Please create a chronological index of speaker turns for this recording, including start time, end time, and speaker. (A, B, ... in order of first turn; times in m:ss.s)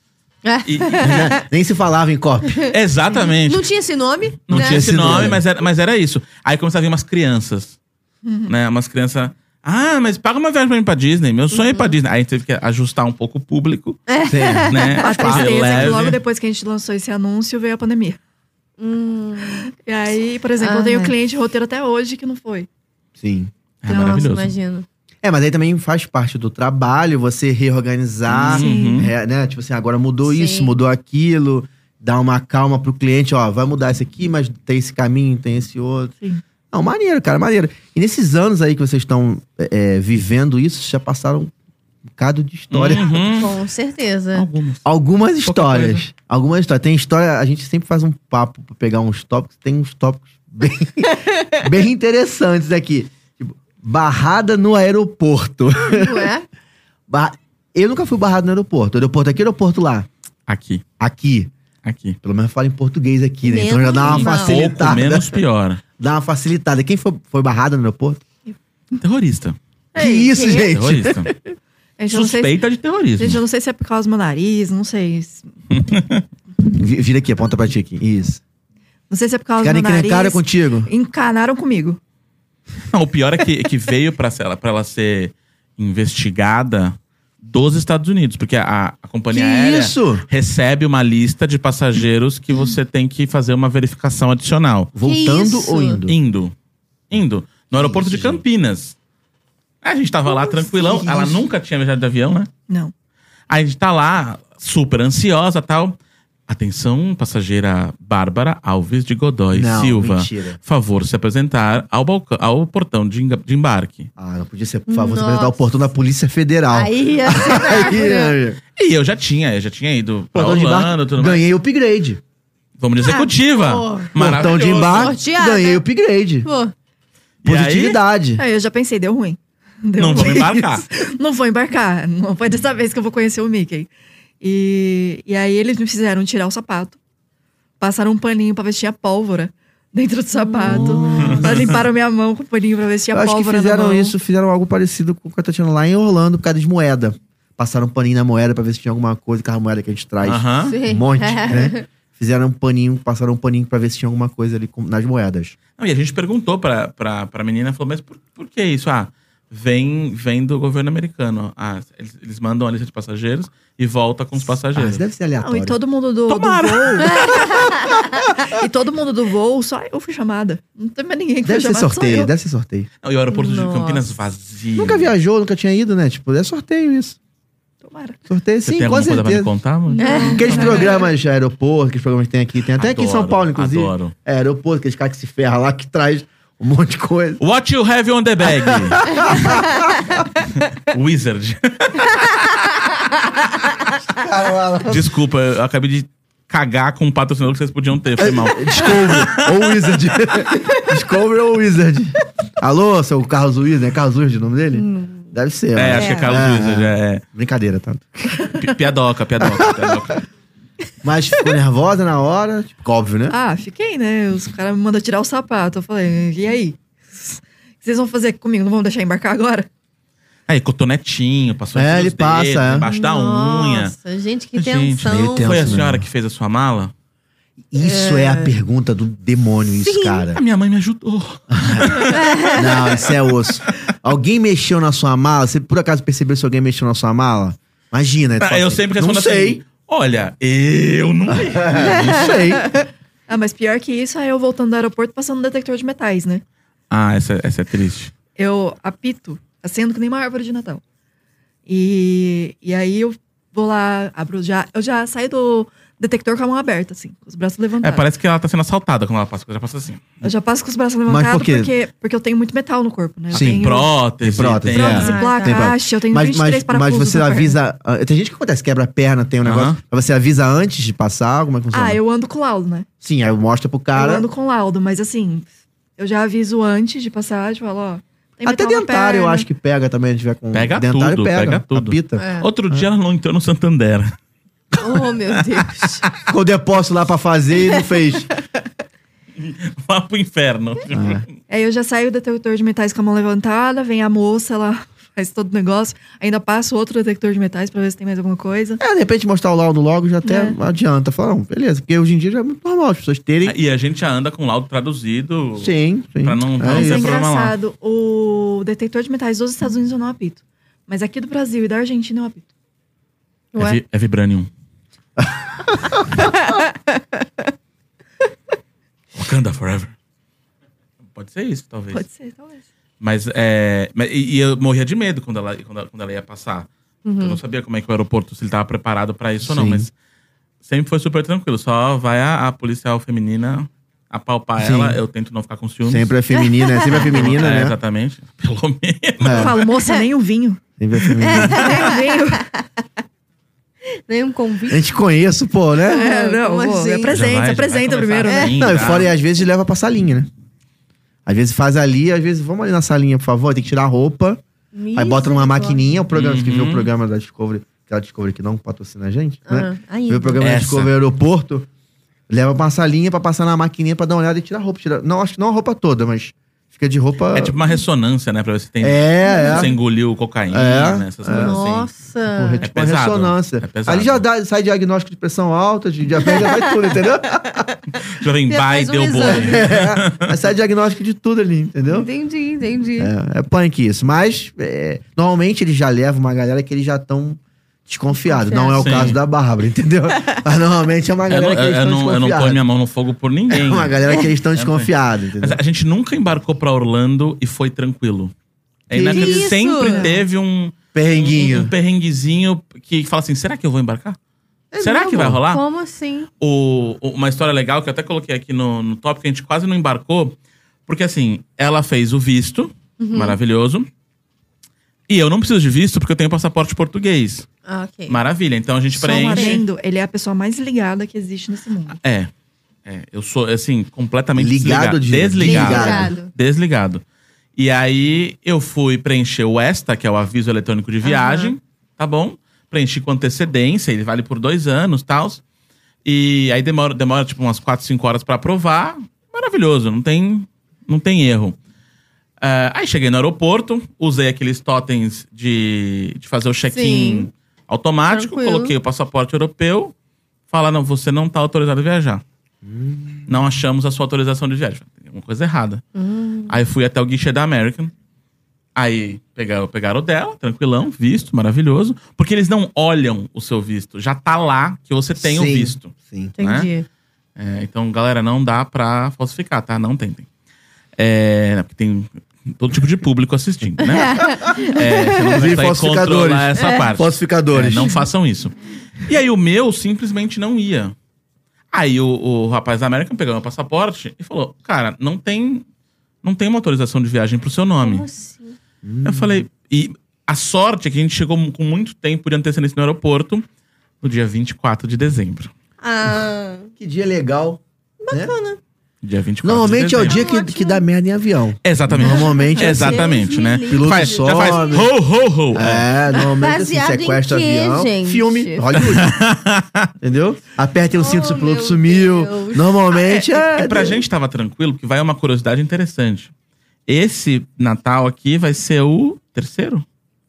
0:00.4-0:01.4 A
0:00.6-0:01.3 B
0:01.0-0:02.6 C
0:02.6-0:05.4 A
0:02.7-0:03.6 B
0:04.4-0:07.8 B
0:04.5-0:05.4 C
0:08.2-0:08.5 D
0:08.5-0:14.0 B
0:11.5-0:12.0 A
0:14.1-0:15.0 A
0:14.3-0:16.0 C
0:14.6-0:16.2 B
0:15.0-0:18.2 D
0:18.8-0:19.7 A
0:19.7-0:22.7 D
0:20.6-0:21.1 A
0:23.2-0:23.5 C
0:23.8-0:24.5 B
0:23.8-0:24.8 A
0:25.2-0:36.1 C
0:28.3-0:29.1 B
0:28.5-0:29.1 D
0:30.2-0:30.8 A
0:36.7-0:41.5 C
0:42.1-0:43.0 C
0:42.7-0:43.5 B
0:43.0-0:44.5 A
0:44.3-0:44.8 B
0:44.8-0:56.3 C
0:45.4-0:46.0 B
0:55.8-0:56.4 A
0:57.1-1:00.1 C
1:00.5-1:00.8 B
1:01.0-1:01.5 C
1:01.8-1:02.2 B
1:02.2-1:05.4 C
1:03.5-1:04.6 A
1:04.0-1:05.8 B
1:06.0-1:08.2 C
1:09.0-1:09.6 B
1:09.9-1:10.8 A
1:09.9-1:11.5 C
1:10.7-1:11.3 B
1:12.0-1:12.6 D
1:12.1-1:13.4 B
1:13.2-1:15.4 D
1:15.7-1:16.2 B
1:16.6-1:18.4 C
1:19.1-1:22.0 D
1:19.6-1:20.9 C
1:22.9-1:34.9 B
1:29.3-1:30.2 C
1:34.9-1:36.2 C
1:35.0-1:36.0 A
1:36.1-1:36.5 B
1:37.1-1:38.9 B
1:37.7-1:38.4 C
1:39.8-1:42.5 B
1:40.7-1:41.4 C
1:43.5-1:46.0 B
1:46.5-1:54.1 B
1:49.5-1:50.6 C
1:54.2-1:58.6 C
1:54.9-1:55.6 A
1:56.7-1:58.3 A
1:58.8-2:01.4 B
2:00.3-2:02.2 C
2:02.8-2:05.1 B
2:03.0-2:05.8 A
2:04.2-2:06.5 C
2:06.4-2:06.7 A
2:07.4-2:08.0 B
2:07.4-2:08.4 C
2:08.4-2:13.9 D
2:10.0-2:10.8 B
2:10.1-2:10.7 C
2:14.4-2:17.0 D
2:17.8-2:24.1 D
2:20.4-2:21.2 A
2:20.6-2:21.8 C
2:20.7-2:21.7 B
2:23.1-2:35.5 C
2:30.2-2:30.8 B
2:30.7-2:31.8 A
2:35.8-2:45.0 B
2:44.7-2:45.8 C
2:45.4-2:52.3 D
2:46.3-2:47.3 B
2:47.2-2:47.6 A
2:51.4-2:52.9 C
2:53.0-2:55.1 B
2:53.3-2:54.1 A
2:54.7-2:57.2 C
2:57.8-2:58.2 D
2:58.3-2:59.5 C
2:58.6-3:00.8 B
2:59.9-3:01.0 A
3:00.0-3:01.0 D
3:00.3-3:07.4 C
3:02.8-3:04.1 B
3:07.4-3:09.5 B
3:08.4-3:10.2 C
3:10.7-3:12.3 B
3:14.0-3:15.1 C
3:14.8-3:19.8 B
3:18.2-3:28.5 C
3:24.7-3:25.2 A
3:25.7-3:27.2 B
3:25.9-3:26.2 D
3:26.0-3:26.3 A
3:28.5-3:30.2 B
3:29.4-3:30.0 C
3:31.0-3:33.4 C
3:33.3-3:39.7 D
3:40.5-3:43.9 B
3:41.7-3:42.9 C
3:42.8-3:45.7 A
3:44.5-3:46.9 B
3:45.1-3:46.0 C
3:47.7-3:50.4 C
3:47.8-3:48.6 A
3:49.7-3:50.2 A
3:50.3-3:52.3 B
3:51.5-3:59.6 C
3:52.0-3:52.8 A
3:58.4-4:02.5 B
4:01.3-4:02.7 C
4:03.3-4:06.4 D
4:06.9-4:08.1 B
4:08.4-4:10.8 D
4:11.6-4:18.1 D
4:17.8-4:20.2 B
4:20.2-4:23.9 D
4:21.1-4:21.7 C
4:23.3-4:25.2 B
4:23.3-4:23.7 C
4:24.2-4:32.0 C
4:24.7-4:27.6 D
4:24.8-4:25.7 A
4:29.4-4:29.8 B
4:31.7-4:32.9 D
4:33.0-4:34.3 C
4:33.9-4:39.5 D
4:38.4-4:42.8 C
4:40.5-4:44.1 B
4:42.2-4:42.5 A
4:44.8-4:46.0 A
4:46.3-4:48.3 C
4:49.4-4:51.3 B
4:50.9-4:51.2 C
4:51.5-4:58.8 D
4:58.8-5:03.6 C
5:00.2-5:00.6 D
5:03.4-5:07.5 B
5:05.6-5:07.1 C
5:06.6-5:12.4 D
5:13.5-5:13.8 A
5:13.6-5:14.5 B
5:15.2-5:16.0 C
5:19.1-5:19.9 B
5:21.1-5:22.0 B
5:21.9-5:22.6 D
5:23.0-5:26.7 B
5:27.0-5:27.4 A
5:27.2-5:29.9 B
5:29.4-5:29.9 C
5:30.6-5:36.1 B
5:34.6-5:35.0 C
5:35.9-5:37.8 C
5:36.3-5:37.3 A
5:36.9-5:39.7 B
5:39.2-5:39.5 C
5:39.3-5:40.6 D
5:40.8-5:41.7 C
5:41.0-5:41.9 B
5:41.3-5:42.4 A
5:41.5-5:42.5 D
5:44.0-5:44.9 A
5:44.7-5:46.1 C
5:45.9-5:47.2 A
5:45.9-5:48.6 D
5:47.1-5:49.1 B
5:48.2-5:48.5 A
5:48.6-5:50.3 C
5:51.2-5:54.4 C
5:54.7-5:55.8 A
5:54.9-6:01.7 C
5:56.1-5:56.9 B
5:59.5-6:00.5 A
6:00.4-6:00.9 B
6:02.3-6:07.6 C
6:07.3-6:11.9 B
6:08.8-6:09.7 C
6:09.2-6:09.7 A
6:10.5-6:11.6 C
6:11.3-6:12.6 A
6:12.3-6:17.6 C
6:12.6-6:14.2 B
6:18.0-6:20.3 B
6:18.5-6:19.7 A
6:19.2-6:22.1 C
6:21.9-6:23.1 A
6:23.0-6:32.6 C
6:28.1-6:28.8 A
6:28.7-6:29.2 B
6:31.3-6:34.0 B
6:33.5-6:35.6 C
6:34.5-6:38.3 B
6:38.9-6:44.2 B
6:38.9-6:39.5 C
6:39.0-6:40.2 A
6:39.8-6:40.1 D
6:40.9-6:41.7 C
6:44.7-6:45.4 C
6:44.8-6:45.6 B
6:45.2-6:46.3 A
6:46.4-6:53.9 B
6:53.0-6:53.4 A
6:55.1-6:57.5 B
6:57.6-6:58.2 A
6:58.1-6:59.6 B
6:58.9-7:02.0 D
6:59.1-6:59.6 A
7:02.0-7:02.3 B
7:02.8-7:07.0 B
7:04.4-7:06.1 C
7:05.4-7:06.3 A
7:05.6-7:06.2 D
7:07.6-7:15.4 B
7:11.0-7:11.5 A
7:16.0-7:21.6 B
7:22.4-7:29.9 B
7:26.7-7:27.3 A
7:28.1-7:28.7 A
7:30.5-7:32.2 B
7:32.6-7:33.3 C
7:33.3-7:35.8 B
7:35.9-7:36.6 A
7:36.5-7:37.9 B
7:38.8-7:46.7 B
7:45.2-7:46.4 C
7:46.4-7:46.8 A
7:47.4-7:50.3 B
7:51.0-8:00.9 B
7:53.8-7:55.1 A
7:54.6-7:58.0 C
7:56.6-7:56.9 A
8:01.7-8:05.6 B
8:06.2-8:08.0 B
8:07.8-8:08.6 A
8:08.8-8:09.4 C
8:09.0-8:13.4 B
8:14.0-8:15.5 B
8:15.8-8:16.7 A
8:16.8-8:18.3 C
8:18.0-8:18.6 A
8:19.0-8:20.2 B
8:19.4-8:24.9 C
8:20.0-8:20.8 A
8:21.6-8:25.9 B
8:22.0-8:24.8 A
8:25.5-8:29.2 C
8:26.1-8:28.8 A
8:28.7-8:29.9 B
8:30.0-8:34.0 C
8:30.9-8:32.8 A
8:32.9-8:36.3 B
8:36.9-8:39.8 B